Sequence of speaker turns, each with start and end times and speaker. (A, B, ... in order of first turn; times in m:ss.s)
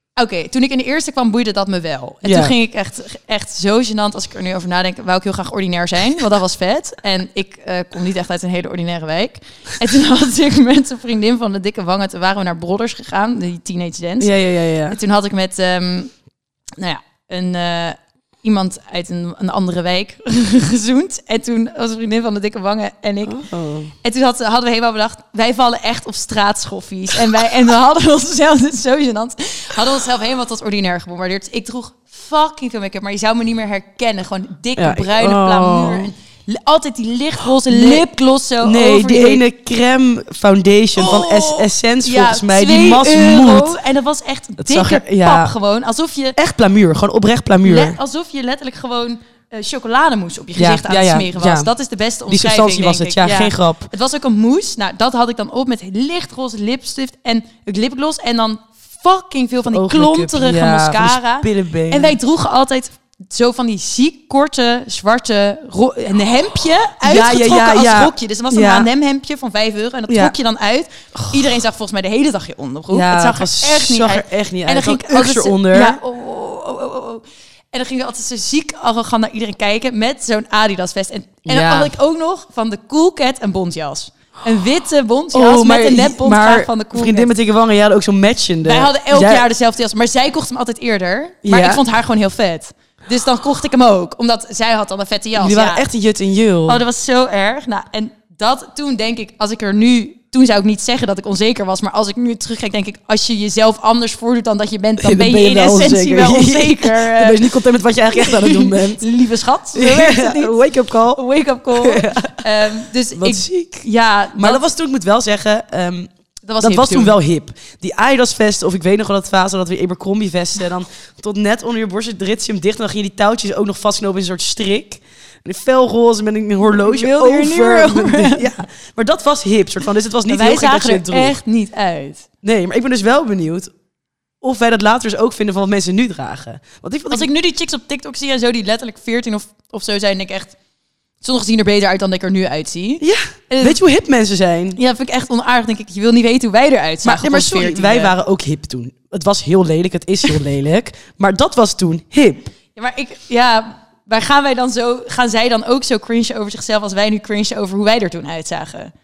0:00.2-0:16.1 A
0:02.2-0:02.5 B
0:14.2-0:15.0 B
0:16.8-0:23.5 A
0:23.3-0:23.9 B
0:24.0-0:39.4 A
0:34.8-0:36.1 B
0:37.6-0:38.1 B
0:38.6-0:43.8 B
0:41.0-0:46.4 A
0:44.6-0:45.5 B
0:46.4-0:48.0 B
0:47.6-1:27.3 A
0:50.6-0:51.7 B
0:52.3-0:53.9 B
0:59.7-1:02.2 B
1:07.0-1:08.9 B
1:10.1-1:10.3 B
1:11.1-1:11.4 B
1:12.9-1:16.0 B
1:21.4-1:21.9 B
1:25.3-1:29.5 B
1:28.6-1:35.8 A
1:31.4-1:31.8 B
1:35.4-1:36.8 B
1:36.6-1:50.6 A
1:45.0-1:49.0 B
1:49.7-1:51.2 B
1:51.1-1:54.6 A
1:51.7-1:52.5 B
1:53.2-2:11.4 B
1:56.4-1:57.2 A
2:06.6-2:08.5 A
2:10.3-2:12.3 A
2:12.4-2:13.7 B
2:14.4-2:17.3 B
2:17.1-2:20.6 A
2:21.2-2:23.8 A
2:23.0-2:24.8 B
2:24.7-2:28.1 A
2:27.0-2:32.5 B
2:32.7-2:38.9 A